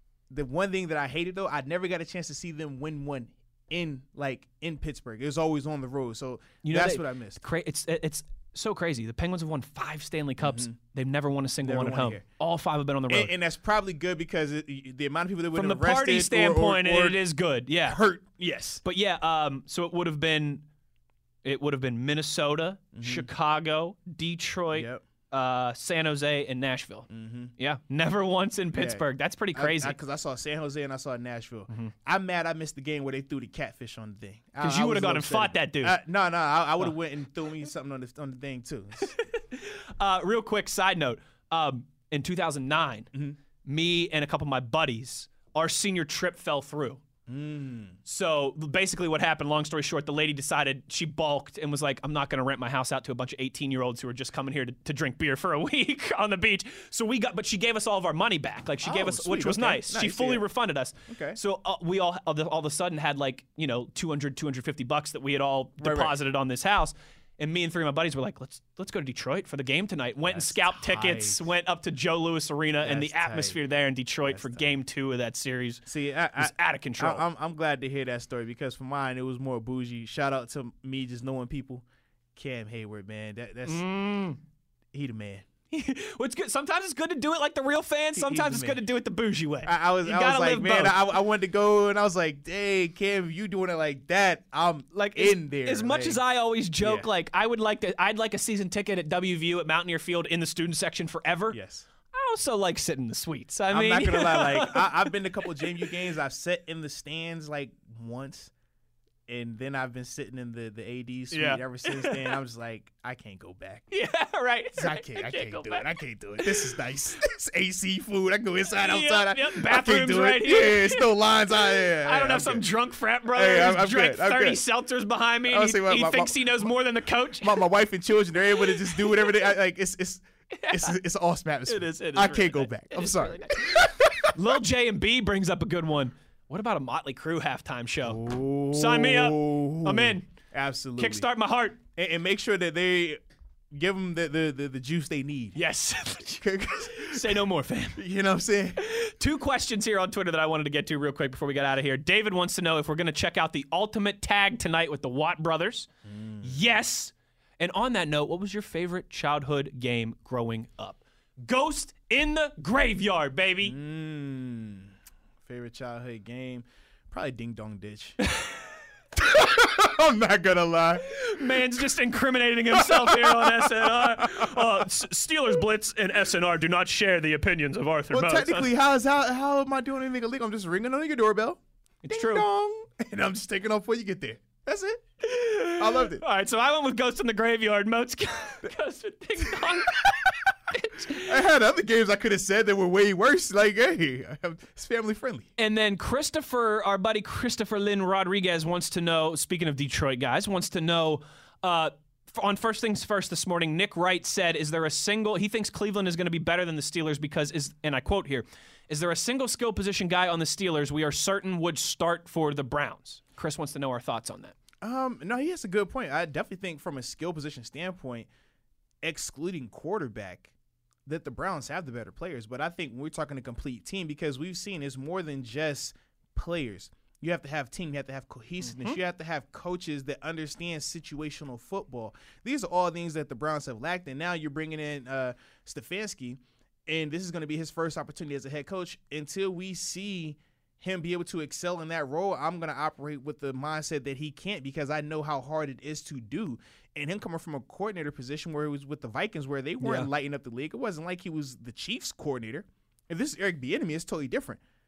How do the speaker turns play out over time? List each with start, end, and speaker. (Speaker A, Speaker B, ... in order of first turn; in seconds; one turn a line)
Speaker A: 0.3-7.4
Speaker B: 6.6-13.3
Speaker A: 10.4-10.8
Speaker A: 11.6-12.2
Speaker A: 13.1-17.2
Speaker B: 15.5-18.0
Speaker A: 17.9-18.8
Speaker B: 18.8-20.6
Speaker B: 21.4-30.0
Speaker A: 22.9-23.3
Speaker A: 24.7-25.0
Speaker A: 27.1-27.5
Speaker A: 28.8-39.1
Speaker B: 34.6-36.0
Speaker B: 39.0-43.1
Speaker A: 43.1-43.4
Speaker B: 43.6-47.0
Speaker A: 47.3-48.0
Speaker B: 48.0-75.8
Speaker A: 58.8-60.5
Speaker A: 61.1-61.4
Speaker A: 65.8-66.2
Speaker A: 70.3-71.4
Speaker A: 72.8-73.6
Speaker A: 74.3-74.7
Speaker A: 75.9-81.8
Speaker B: 76.4-77.2
Speaker A: 82.4-83.8
Speaker B: 83.7-84.4
Speaker A: 84.9-85.5
Speaker B: 85.7-91.0
Speaker A: 88.2-88.8
Speaker A: 89.7-96.2
Speaker B: 94.9-101.6
Speaker A: 96.8-97.1
Speaker A: 101.5-101.9
Speaker B: 102.1-105.9
Speaker A: 103.7-108.5
Speaker A: 109.3-113.9
Speaker B: 111.3-112.4
Speaker B: 113.9-116.8
Speaker A: 114.8-122.7
Speaker B: 118.8-127.7
Speaker A: 123.3-124.6
Speaker A: 125.5-126.7
Speaker A: 127.4-134.4
Speaker B: 128.8-129.5
Speaker B: 130.5-131.0
Speaker B: 131.7-140.3
Speaker A: 138.0-141.3
Speaker B: 141.0-141.8
Speaker A: 141.9-143.2
Speaker A: 143.7-145.6
Speaker B: 145.6-148.0
Speaker A: 146.4-148.8
Speaker B: 148.8-155.9
Speaker A: 156.1-156.6
Speaker B: 156.4-163.8
Speaker A: 163.6-164.9
Speaker A: 165.4-168.2
Speaker A: 169.2-171.7
Speaker B: 171.0-178.7
Speaker A: 172.7-174.9
Speaker A: 178.1-185.0
Speaker B: 182.0-182.5
Speaker B: 185.2-191.3
Speaker A: 185.8-186.2
Speaker A: 189.5-190.5
Speaker A: 191.2-195.5
Speaker B: 195.6-214.6
Speaker A: 214.8-218.3
Speaker A: 219.0-220.5
Speaker A: 221.1-254.6
Speaker B: 228.6-229.0
Speaker B: 249.8-250.1